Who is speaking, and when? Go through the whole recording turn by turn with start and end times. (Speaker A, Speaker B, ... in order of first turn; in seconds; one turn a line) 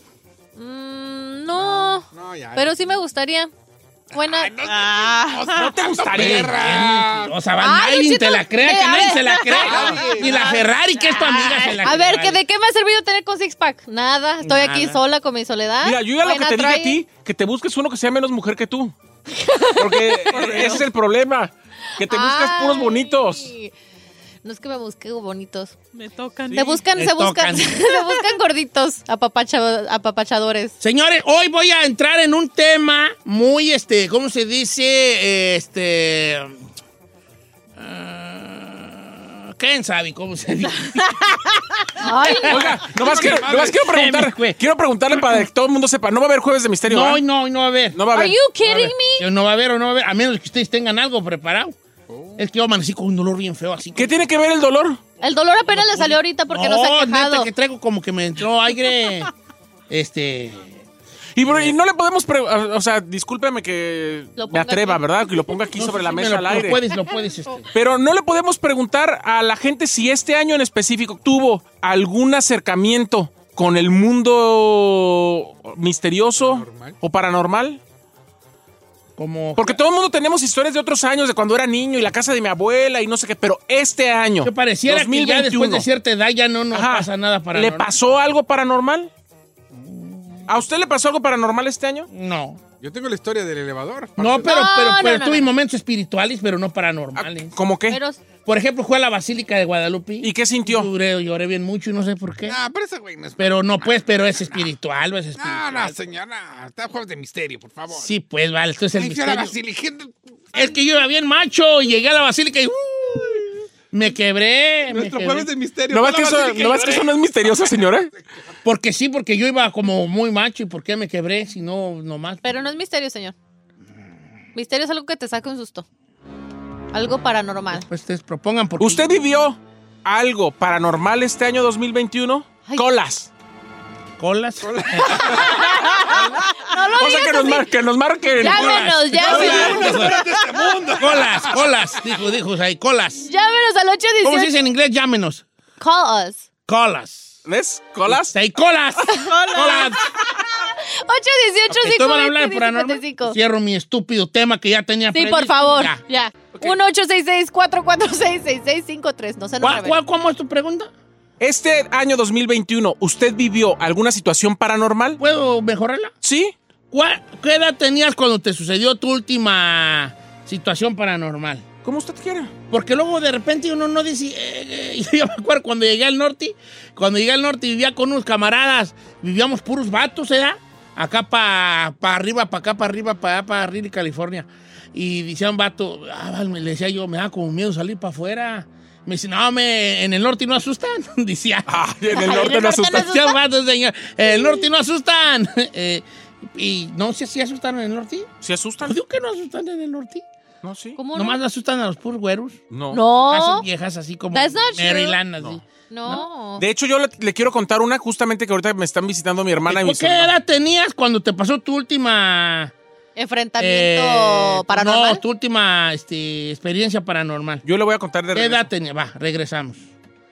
Speaker A: 0.6-3.5
Speaker B: 2.1-3.0
Speaker B: 4.1-7.4
Speaker A: 4.1-4.5
Speaker C: 4.6-5.8
Speaker D: 5.5-6.6
Speaker E: 6.1-12.4
Speaker A: 7.5-9.9
Speaker B: 9.6-10.6
Speaker C: 10.2-10.7
Speaker A: 11.1-17.0
Speaker C: 11.2-11.7
Speaker E: 14.4-15.0
Speaker D: 15.8-18.9
Speaker A: 19.3-20.1
Speaker D: 19.8-23.5
Speaker C: 20.3-20.9
Speaker A: 22.0-23.7
Speaker A: 24.4-25.7
Speaker C: 25.9-26.9
Speaker A: 26.5-30.8
Speaker E: 26.9-27.9
Speaker E: 30.8-36.5
Speaker E: 37.8-42.9
Speaker A: 42.0-42.6
Speaker D: 42.4-47.2
Speaker B: 42.9-43.8
Speaker E: 43.8-44.6
Speaker E: 45.1-45.5
Speaker E: 46.9-48.1
Speaker D: 47.9-48.4
Speaker A: 48.1-49.3
Speaker E: 48.6-51.8
Speaker B: 52.1-52.5
Speaker E: 52.4-54.2
Speaker D: 53.9-55.0
Speaker A: 55.2-57.5
Speaker E: 55.7-59.3
Speaker E: 59.9-60.8
Speaker D: 61.4-66.8
Speaker E: 61.5-61.7
Speaker A: 64.4-65.0
Speaker E: 65.8-67.7
Speaker D: 67.7-77.8
Speaker B: 76.3-77.0
Speaker E: 79.2-79.8
Speaker D: 79.5-85.9
Speaker E: 84.4-87.9
Speaker D: 86.7-89.1
Speaker E: 89.7-90.4
Speaker D: 90.5-92.1
Speaker E: 92.1-92.6
Speaker B: 92.8-94.6
Speaker E: 94.2-97.5
Speaker A: 94.4-95.5
Speaker D: 97.2-98.0
Speaker A: 97.9-98.2
Speaker E: 98.4-102.6
Speaker D: 100.2-100.9
Speaker B: 102.5-104.7
Speaker E: 103.4-106.0
Speaker B: 105.4-108.1
Speaker E: 107.9-109.5
Speaker B: 108.9-110.6
Speaker E: 110.5-115.5
Speaker B: 114.9-117.8
Speaker D: 115.9-118.1
Speaker E: 118.6-122.4
Speaker A: 122.4-123.3
Speaker A: 124.5-125.8
Speaker A: 126.9-127.8
Speaker E: 127.7-129.2
Speaker D: 128.8-133.3
Speaker E: 134.2-135.4
Speaker B: 134.6-136.3
Speaker A: 135.6-137.7
Speaker D: 137.0-139.7
Speaker A: 138.4-140.2
Speaker E: 138.4-140.2
Speaker B: 138.6-142.0
Speaker E: 140.9-143.3
Speaker A: 143.2-144.5
Speaker E: 144.2-145.4
Speaker A: 145.8-146.4
Speaker E: 146.7-147.4
Speaker D: 147.4-148.3
Speaker E: 148.1-150.0
Speaker A: 149.1-149.8
Speaker C: 149.3-149.9
Speaker A: 150.7-153.4
Speaker E: 151.7-156.0
Speaker A: 155.1-160.0
Speaker E: 159.6-160.9
Speaker D: 161.4-165.2
Speaker E: 165.2-166.1
Speaker D: 166.2-166.5
Speaker E: 166.9-171.7
Speaker D: 171.8-172.5
Speaker E: 172.7-198.3
Speaker D: 191.7-193.1
Speaker A: 192.1-193.4
Speaker A: 194.3-194.6
Speaker D: 198.4-199.0
Speaker E: 198.8-200.2
Speaker D: 200.6-201.0
Speaker A: 201.0-201.4
Speaker E: 201.1-202.6
Speaker D: 202.7-203.0
Speaker A: 202.9-203.7
Speaker E: 203.2-206.2
Speaker A: 204.3-205.2
Speaker A: 205.9-206.6
Speaker D: 206.6-210.3
Speaker E: 209.7-212.7
Speaker A: 213.2-215.2
Speaker E: 213.6-217.6
Speaker D: 217.6-218.7
Speaker E: 218.3-219.9